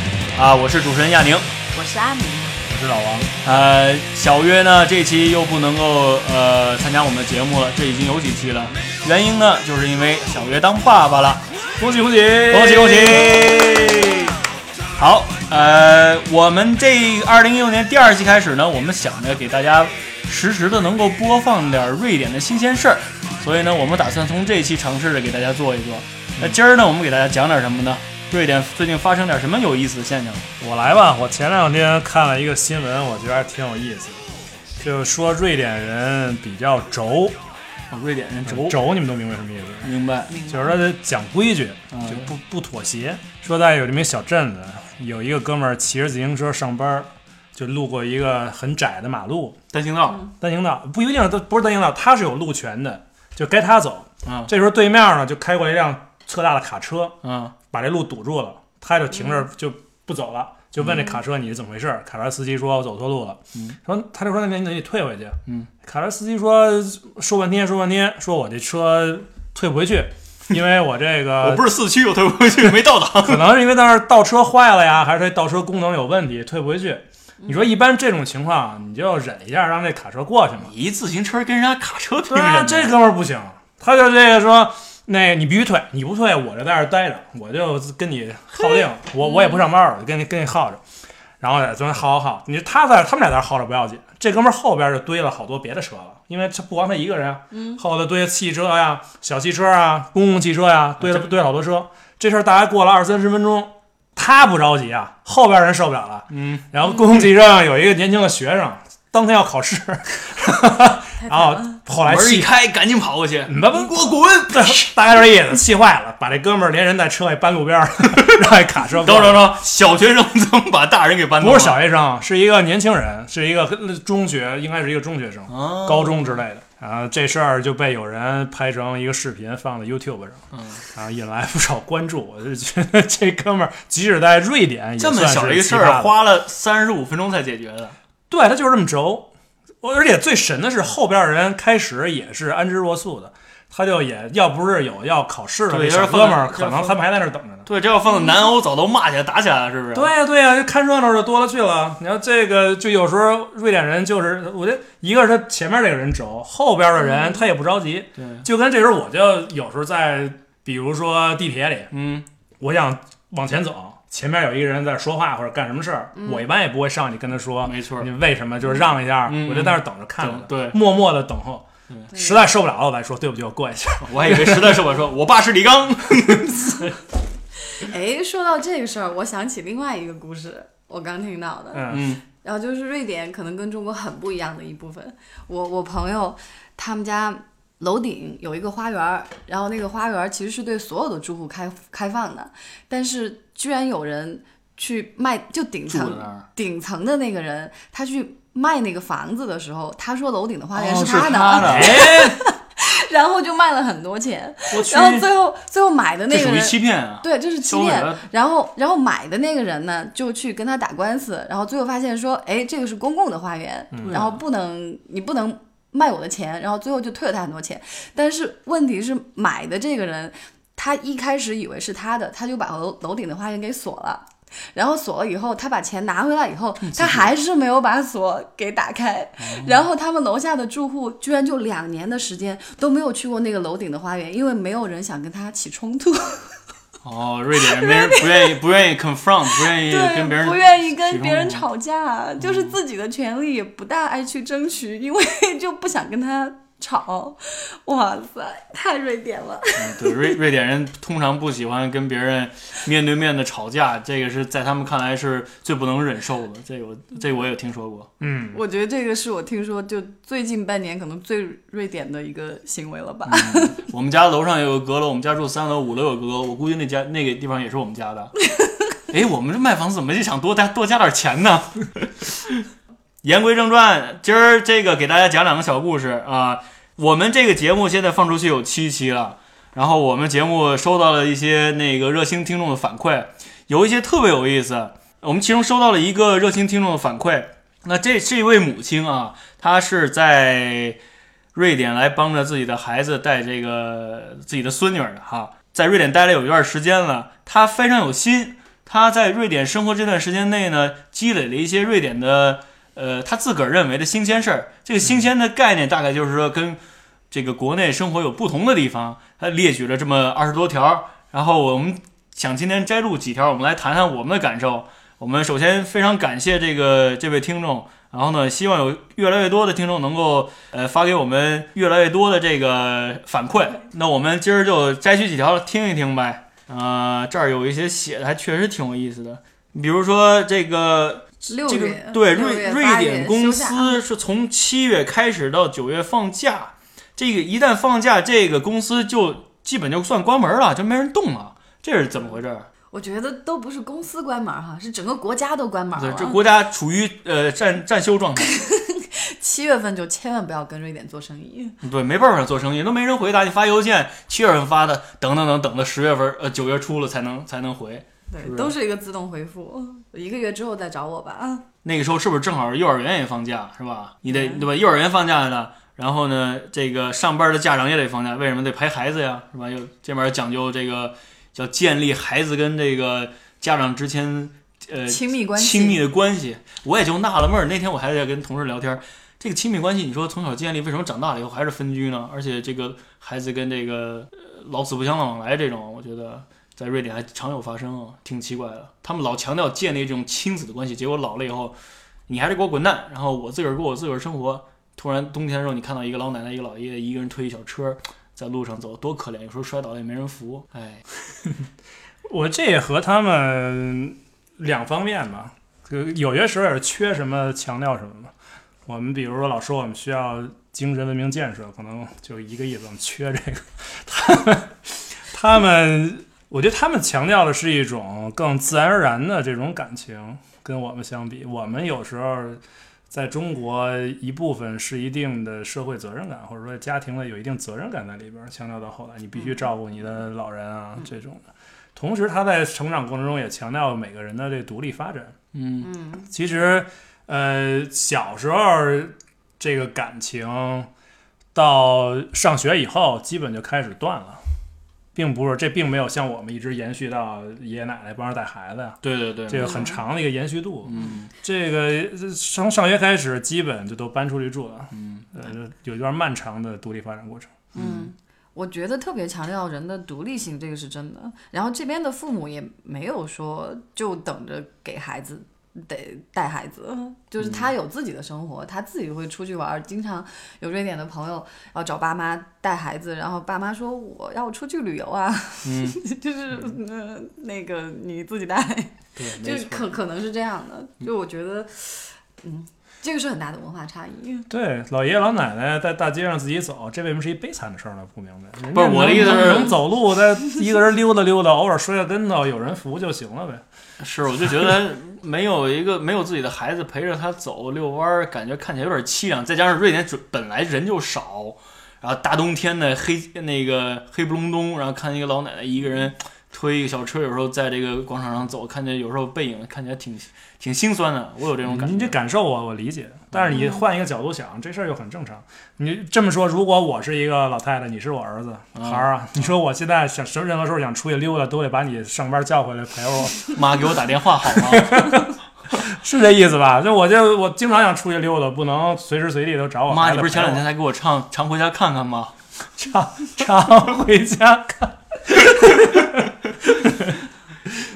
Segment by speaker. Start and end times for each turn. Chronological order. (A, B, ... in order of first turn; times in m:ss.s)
0:00.4-0:01.5 A
0:01.7-0:02.6 B
0:02.7-0:03.3 C
0:03.4-0:11.4 A
0:11.8-0:14.2 C
0:12.4-0:14.3 A
0:15.0-0:30.5 A
0:30.6-0:34.2 C
0:34.8-0:37.4 C
0:37.9-0:38.8 A
0:38.5-0:40.0 C
0:39.8-0:40.5 A
0:40.5-0:49.6 C
0:41.9-0:42.3 A
0:49.7-0:50.2 A
0:50.4-0:57.2 C
0:54.2-0:54.5 A
0:57.2-0:57.5 A
0:57.7-1:11.7 C
1:00.8-1:01.2 A
1:11.4-1:13.4 A
1:12.6-1:20.7 C
1:20.6-1:22.9 A
1:22.3-1:30.8 C
1:29.2-1:29.6 B
1:31.4-1:52.5 C
1:37.5-1:37.8 B
1:41.0-1:41.3 A
1:46.3-1:46.6 A
1:51.2-1:51.8 B
1:52.0-1:55.0 A
1:53.4-1:59.6 C
1:59.0-2:01.8 A
2:01.4-2:16.1 C
2:05.5-2:06.4 A
2:10.5-2:10.8 A
2:15.0-2:18.0 A
2:18.3-2:19.3 C
2:19.8-2:27.7 C
2:25.7-2:27.0 A
2:27.6-2:30.1 A
2:29.9-2:41.9 C
2:38.2-2:38.4 A
2:41.9-2:42.2 A
2:42.6-2:54.8 C
2:46.1-2:46.4 B
2:47.6-2:48.1 A
2:49.3-2:50.8 A
2:54.0-2:57.0 A
2:57.7-3:01.9 B
3:01.7-3:02.1 C
3:01.9-3:02.2 A
3:02.4-3:56.6 B
3:15.9-3:16.4 A
3:20.7-3:22.2 A
3:21.6-3:22.4 C
3:24.7-3:25.3 C
3:26.3-3:28.2 A
3:34.0-3:34.4 A
3:46.8-3:47.3 A
3:49.4-3:49.8 A
3:57.0-4:01.6 A
3:57.6-3:58.6 B
3:59.5-4:10.4 B
4:02.4-4:02.8 A
4:09.8-4:18.1 A
4:18.2-4:18.6 C
4:18.5-4:23.8 B
4:23.2-4:28.3 A
4:28.5-4:28.8 B
4:29.1-4:32.6 A
4:33.2-4:51.0 A
4:51.5-5:06.8 A
5:07.3-5:42.7 A
5:31.5-5:34.0 B
5:42.9-5:46.4 B
5:46.0-5:48.5 A
5:48.4-5:51.8 B
5:51.8-5:58.7 A
5:58.3-6:01.6 B
6:01.8-6:31.7 A
6:04.3-6:04.6 B
6:15.0-6:16.0 B
6:32.3-6:41.0 A
6:41.4-6:41.7 C
6:42.3-6:48.3 C
6:48.8-7:11.4 C
7:09.4-7:09.6 B
7:11.9-7:15.4 C
7:15.5-7:15.9 A
7:15.8-7:16.3 B
7:16.3-7:20.9 C
7:21.5-7:24.4 C
7:25.1-7:37.6 C
7:29.0-7:29.8 A
7:29.5-7:30.0 B
7:30.9-7:31.3 A
7:34.9-7:35.3 A
7:37.7-7:38.1 A
7:37.8-8:04.5 B
7:47.4-7:47.7 A
7:55.6-7:56.0 A
7:59.2-7:59.9 A
8:04.5-8:13.6 C
8:08.7-8:09.8 A
8:09.1-8:09.7 B
8:14.0-8:32.1 A
8:31.6-8:43.5 C
8:33.3-8:33.7 A
8:38.7-8:39.5 A
8:43.5-8:45.1 A
8:44.6-8:50.6 C
8:49.9-8:52.3 A
8:52.8-8:57.2 C